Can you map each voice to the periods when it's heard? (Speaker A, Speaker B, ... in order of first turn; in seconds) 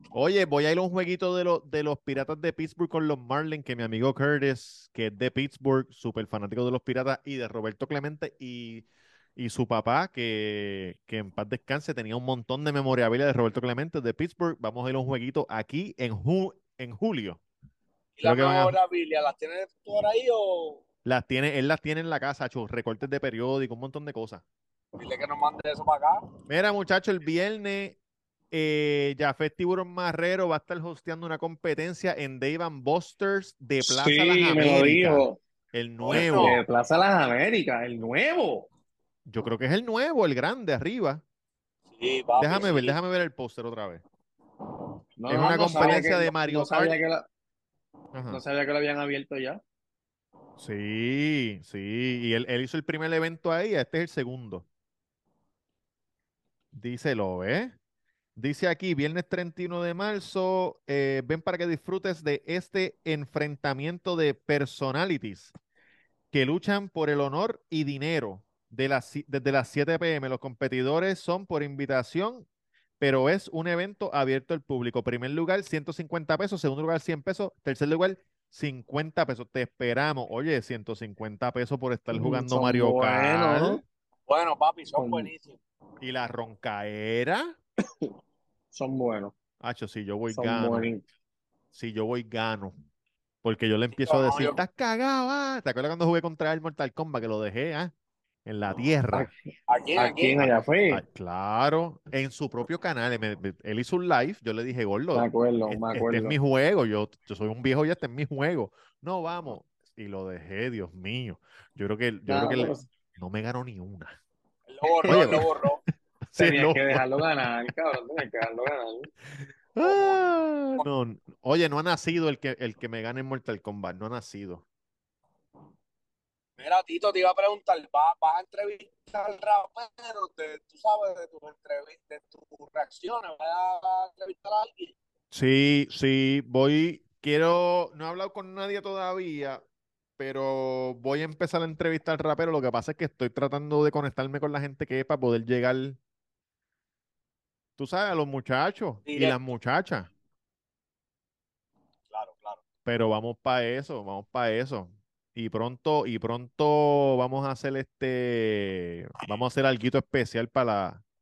Speaker A: 0.1-17.4, 18.2-18.8, 21.1-24.4, 26.5-28.0, 28.5-36.6, 39.3-41.2, 42.4-44.0, 45.3-47.0, 48.1-48.4, 50.6-54.7, 56.7-57.8, 58.4-65.5, 66.3-72.5, 73.0-83.8, 86.0-87.6, 89.6-90.9, 91.7-92.8, 93.4-97.9, 98.5-99.3, 100.4-114.2, 115.1-115.5, 116.3-117.1, 119.8-124.6, 135.3-139.6, 140.2-146.0, 147.8-150.1, 152.8-161.0
Speaker B: 18.2-20.8, 25.0-26.2, 36.0-36.6, 41.9-43.0, 84.3-85.6, 94.0-94.6, 99.7-100.5, 114.7-115.8, 119.8-120.2, 126.6-134.9, 149.1-149.4, 152.1-152.6
Speaker C: 33.8-35.4, 36.1-38.7, 45.2-47.2, 48.3-49.6, 82.1-83.8, 85.0-85.3, 88.7-89.3, 90.3-91.0, 100.0-101.0, 105.1-106.3, 112.3-112.9, 115.0-115.4, 116.4-119.1